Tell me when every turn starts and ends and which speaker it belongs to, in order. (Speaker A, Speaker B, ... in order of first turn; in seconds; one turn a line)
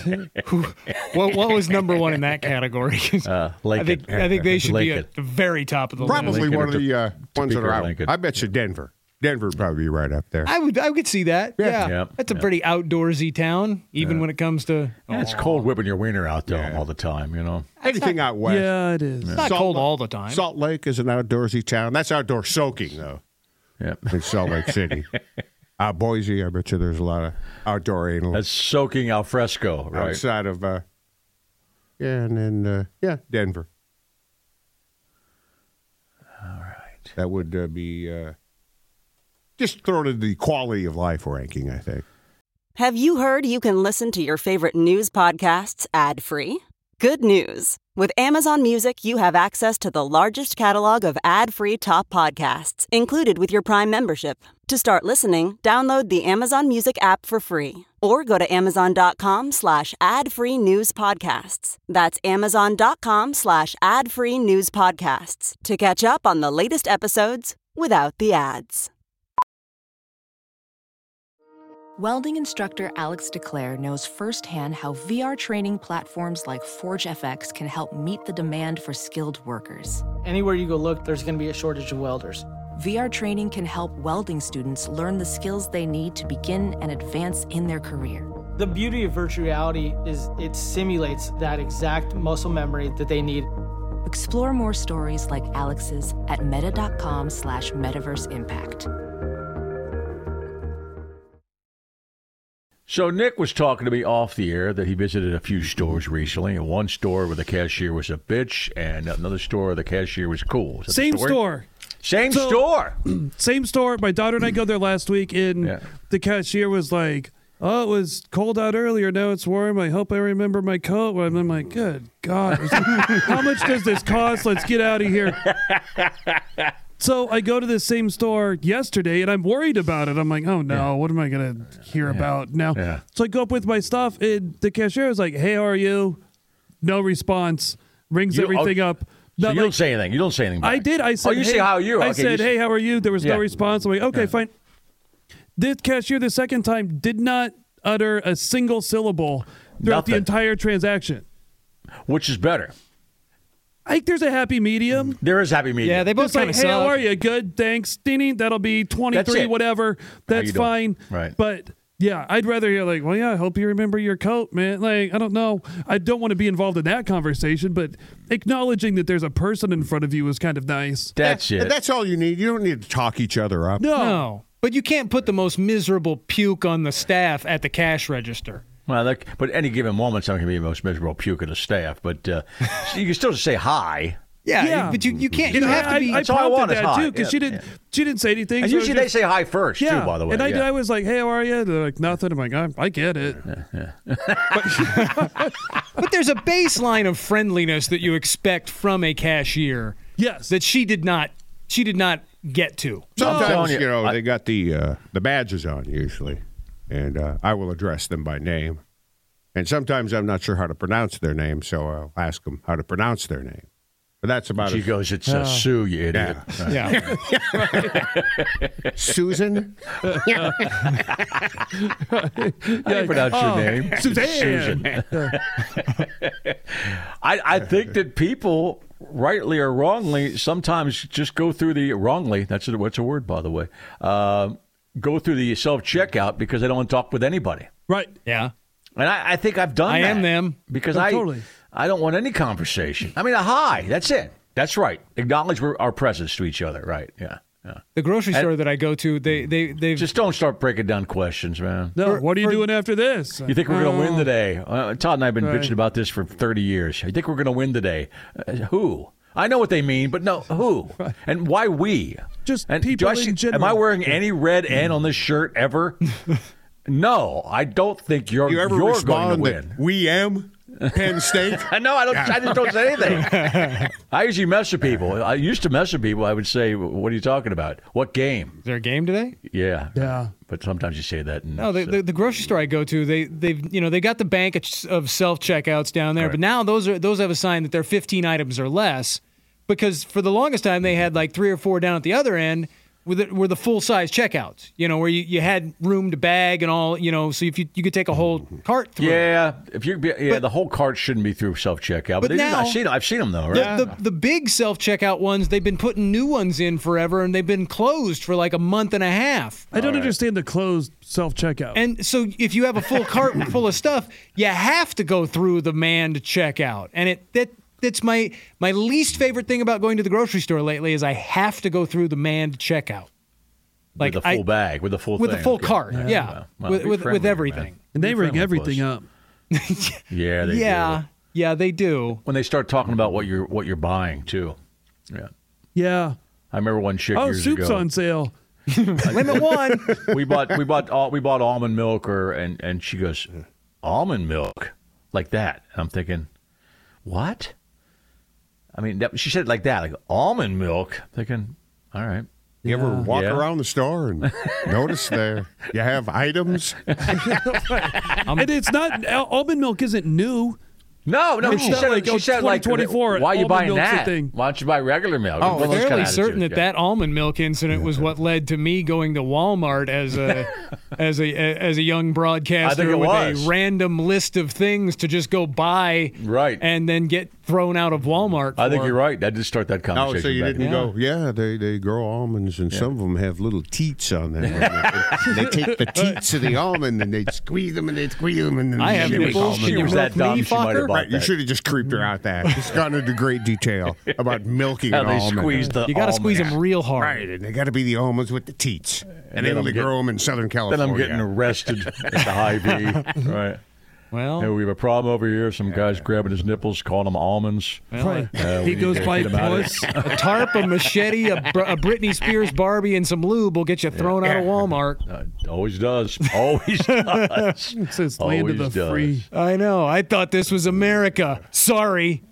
Speaker A: 0.4-6.7
Speaker B: 3.2-5.1
Speaker B: 6.0-8.3
Speaker C: 6.0-10.5
Speaker A: 10.4-15.7
Speaker C: 11.6-11.9
Speaker B: 11.8-12.5
Speaker B: 14.0-14.3
Speaker B: 15.1-17.7
Speaker C: 16.5-16.9
Speaker C: 17.8-18.8
Speaker D: 18.4-19.4
Speaker A: 19.3-20.4
Speaker C: 19.4-23.2
Speaker B: 23.8-25.0
Speaker C: 24.1-25.1
Speaker C: 25.8-28.4
Speaker B: 28.3-30.2
Speaker C: 29.9-30.8
Speaker C: 32.0-33.7
Speaker B: 36.4-37.1
Speaker C: 37.2-38.3
Speaker C: 39.6-42.0
Speaker E: 42.8-68.9
Speaker F: 72.0-80.1
Speaker G: 80.2-82.5
Speaker F: 82.8-88.3
Speaker G: 88.6-93.5
Speaker F: 94.0-98.9
Speaker B: 102.9-111.4
Speaker D: 110.9-111.6
Speaker B: 112.0-113.0
Speaker D: 112.2-125.5
Speaker B: 122.6-123.4
Speaker B: 125.2-126.1
Speaker D: 127.0-136.2
Speaker B: 132.0-133.0
Speaker D: 136.8-139.8
Speaker B: 138.3-138.8
Speaker B: 139.4-142.6
Speaker D: 140.6-144.5
Speaker B: 143.2-143.5
Speaker D: 145.6-151.2
Speaker B: 149.8-150.3
Speaker B: 152.1-152.7
Speaker D: 153.8-155.2
Speaker B: 155.1-156.1
Speaker A: 155.8-157.0
Speaker D: 156.2-171.1
Speaker B: 159.1-159.6
Speaker B: 160.3-161.3
Speaker B: 171.1-171.7
Speaker C: 171.2-173.8
Speaker D: 173.8-174.2
Speaker A: 173.9-178.6
Speaker B: 178.9-184.2
Speaker A: 184.4-186.2
Speaker D: 184.6-185.0
Speaker C: 185.1-185.6
Speaker D: 185.5-189.2
Speaker B: 185.5-187.6
Speaker B: 188.6-190.7
Speaker D: 189.8-193.4
Speaker B: 193.5-195.1
Speaker D: 194.5-195.5
Speaker A: 194.9-195.2
Speaker A: 196.0-199.9
Speaker D: 200.2-200.5
Speaker A: 200.5-203.2
Speaker C: 203.2-206.4
Speaker D: 203.2-203.6
Speaker B: 203.2-204.2
Speaker C: 206.9-208.8
Speaker C: 209.5-213.7
Speaker C: 214.2-214.9
Speaker B: 214.6-218.9
Speaker D: 215.3-215.7
Speaker C: 216.1-218.0
Speaker A: 216.7-216.9
Speaker D: 216.9-217.1
Speaker C: 218.9-221.1
Speaker D: 220.0-220.9
Speaker D: 221.7-225.4
Speaker B: 222.8-237.7
Speaker D: 237.9-238.2
Speaker A: 238.2-238.5
Speaker B: 238.9-248.5
Speaker A: 239.8-240.6
Speaker D: 240.9-241.4
Speaker A: 247.9-250.1
Speaker B: 249.9-252.0
Speaker D: 251.9-254.3
Speaker A: 252.0-252.7
Speaker B: 253.4-266.2
Speaker D: 255.4-255.8
Speaker D: 262.4-264.0
Speaker B: 266.9-269.8
Speaker C: 268.4-273.2
Speaker B: 270.9-278.6
Speaker A: 273.1-273.9
Speaker A: 278.6-279.4
Speaker B: 279.4-282.0
Speaker D: 279.9-280.3
Speaker A: 281.6-299.4
Speaker B: 299.0-303.9
Speaker A: 302.2-302.8
Speaker A: 303.5-309.6
Speaker D: 309.7-311.8
Speaker B: 309.7-310.1
Speaker A: 311.7-323.1
Speaker A: 324.0-324.5
Speaker B: 324.0-328.9
Speaker A: 325.1-327.8
Speaker D: 325.9-326.3
Speaker D: 327.9-329.1
Speaker A: 329.5-332.2
Speaker B: 330.1-331.0
Speaker B: 332.2-334.6
Speaker D: 335.7-336.2
Speaker B: 336.5-337.9
Speaker D: 337.1-338.3
Speaker A: 338.7-340.0
Speaker B: 339.0-346.3
Speaker B: 347.0-347.5
Speaker B: 348.7-352.3
Speaker D: 352.6-353.1
Speaker C: 352.6-357.0
Speaker B: 353.1-353.5
Speaker B: 354.2-354.9
Speaker B: 356.9-358.2
Speaker D: 357.1-360.6
Speaker B: 361.1-366.6
Speaker D: 361.4-364.3
Speaker C: 365.4-366.1
Speaker A: 365.4-379.0
Speaker B: 372.6-373.5
Speaker B: 376.1-376.6
Speaker B: 378.6-380.7
Speaker C: 379.9-390.1
Speaker A: 380.6-380.9
Speaker B: 384.4-385.4
Speaker A: 388.8-390.9
Speaker B: 388.9-391.3
Speaker C: 390.9-395.6
Speaker B: 394.9-396.6
Speaker A: 395.9-397.2
Speaker C: 397.0-401.5
Speaker B: 399.2-399.9
Speaker B: 400.7-403.6
Speaker A: 404.1-404.5
Speaker B: 404.4-410.2
Speaker A: 407.9-408.3
Speaker D: 408.0-410.0
Speaker A: 410.0-415.0
Speaker B: 413.9-419.2
Speaker A: 417.0-417.5
Speaker D: 417.7-419.2
Speaker A: 419.3-422.2